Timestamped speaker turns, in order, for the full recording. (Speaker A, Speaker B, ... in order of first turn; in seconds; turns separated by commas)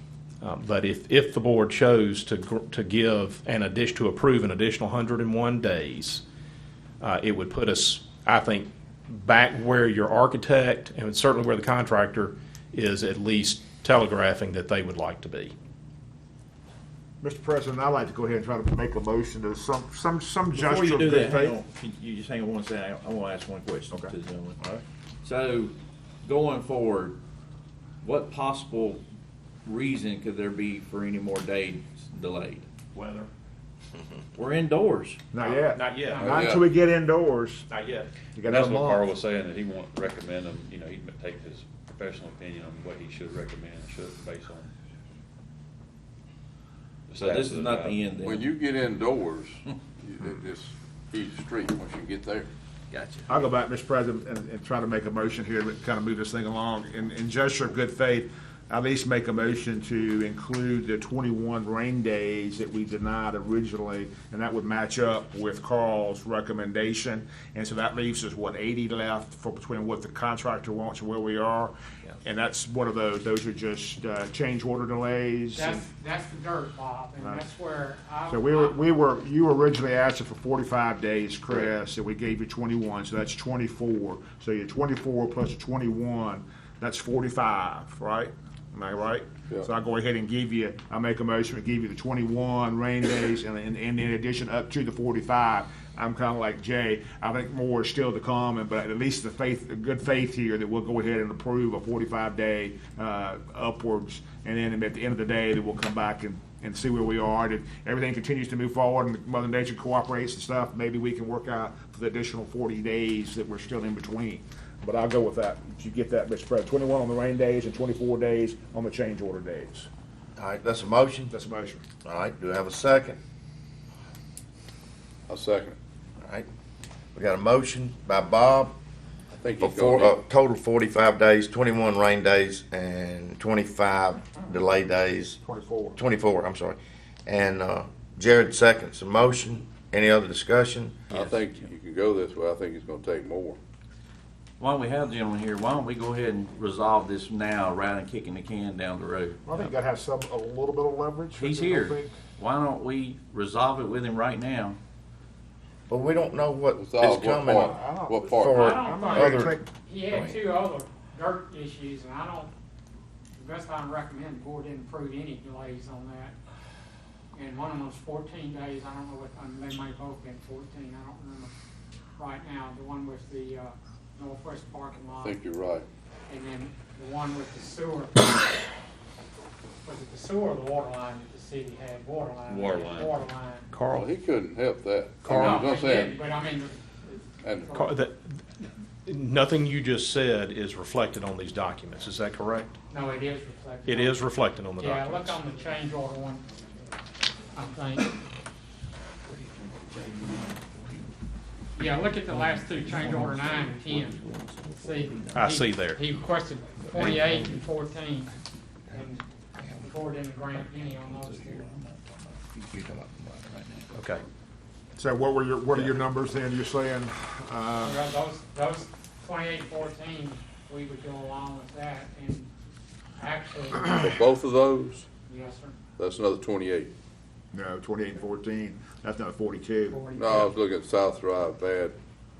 Speaker A: 0.4-6.2, Speaker A: 7.0-15.5, Speaker B: 17.2-21.6, Speaker C: 20.5-24.6, Speaker C: 25.2-27.2, Speaker C: 28.0-29.0, Speaker C: 29.6-32.6, Speaker A: 32.9-33.3, Speaker C: 34.3-35.2, Speaker B: 35.3-37.6, Speaker A: 35.4-36.2, Speaker D: 36.0-36.4, Speaker E: 36.2-36.7, Speaker A: 37.7-38.1, Speaker B: 38.3-39.1, Speaker F: 38.5-44.7, Speaker F: 47.1-48.0, Speaker C: 47.1-48.5, Speaker E: 48.2-52.5, Speaker C: 52.9-53.3, Speaker B: 53.3-75.8, Speaker D: 75.5-78.7, Speaker B: 77.2-77.5, Speaker B: 78.3-119.9, Speaker G: 120.4-121.3, Speaker B: 121.3-121.8, Speaker G: 122.0-123.2, Speaker E: 125.3-125.8, Speaker G: 126.2-126.5, Speaker G: 127.1-128.7, Speaker E: 129.4-130.2, Speaker G: 129.6-135.4, Speaker B: 135.4-136.0, Speaker G: 135.9-141.0, Speaker E: 141.1-143.6, Speaker C: 141.1-141.4, Speaker C: 144.6-149.7, Speaker B: 149.4-152.1, Speaker C: 151.4-154.8, Speaker G: 155.9-157.8, Speaker E: 156.7-158.8, Speaker B: 157.5-159.7, Speaker G: 158.3-160.4, Speaker D: 158.6-162.5, Speaker D: 163.3-166.3, Speaker D: 167.3-171.5, Speaker D: 172.1-175.4, Speaker E: 175.2-175.8, Speaker D: 176.3-178.6, Speaker D: 179.8-183.7, Speaker F: 182.5-183.3, Speaker A: 183.7-184.0, Speaker E: 183.9-186.2, Speaker D: 185.3-188.0, Speaker E: 187.4-187.7, Speaker A: 187.7-192.7, Speaker D: 192.9-196.6, Speaker A: 193.8-195.4, Speaker D: 197.5-198.2, Speaker C: 200.0-200.6, Speaker D: 201.7-204.2, Speaker C: 203.2-203.6, Speaker C: 204.4-204.8, Speaker D: 204.8-208.3, Speaker A: 205.3-206.0, Speaker D: 208.9-211.7, Speaker C: 210.5-213.9, Speaker A: 213.9-214.2, Speaker B: 215.0-218.1, Speaker D: 217.8-222.5, Speaker D: 223.2-224.2, Speaker E: 223.7-225.1, Speaker D: 225.2-225.8, Speaker E: 226.0-226.9, Speaker B: 227.5-230.0, Speaker D: 229.9-230.5, Speaker E: 230.1-231.9